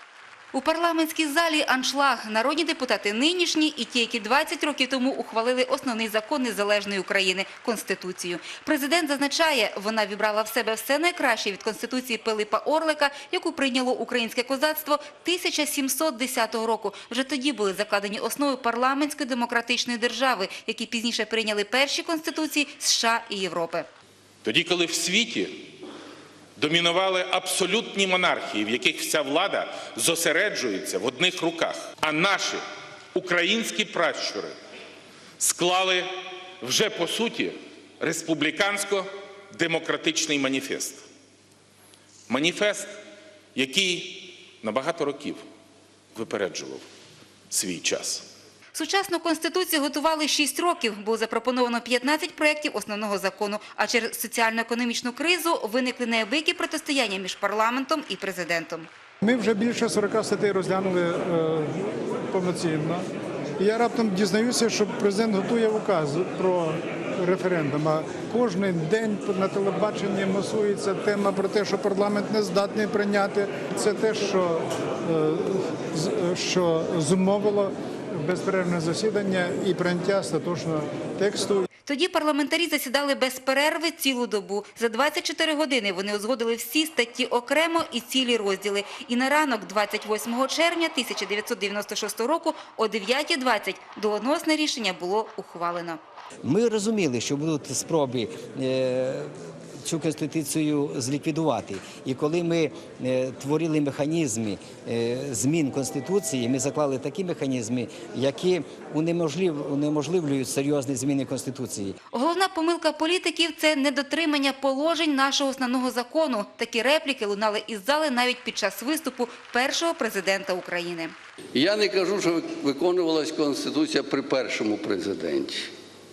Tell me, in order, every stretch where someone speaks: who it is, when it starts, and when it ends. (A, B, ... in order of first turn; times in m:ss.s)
0:00.5-0:23.9 A
0:24.4-0:25.5 B
0:26.6-0:32.6 B
0:33.2-0:34.6 B
0:35.4-0:36.1 B
0:36.6-0:41.0 B
0:42.3-0:43.0 B
0:43.6-0:45.4 B
0:46.2-0:46.8 B
0:47.5-0:48.2 B
0:48.7-0:58.9 A
0:59.2-1:01.8 C
1:02.3-1:03.0 C
1:03.6-1:21.7 C
1:21.9-1:36.0 A
1:36.4-1:39.3 D
1:39.8-1:52.0 D
1:52.1-2:01.1 A
2:01.6-2:05.7 E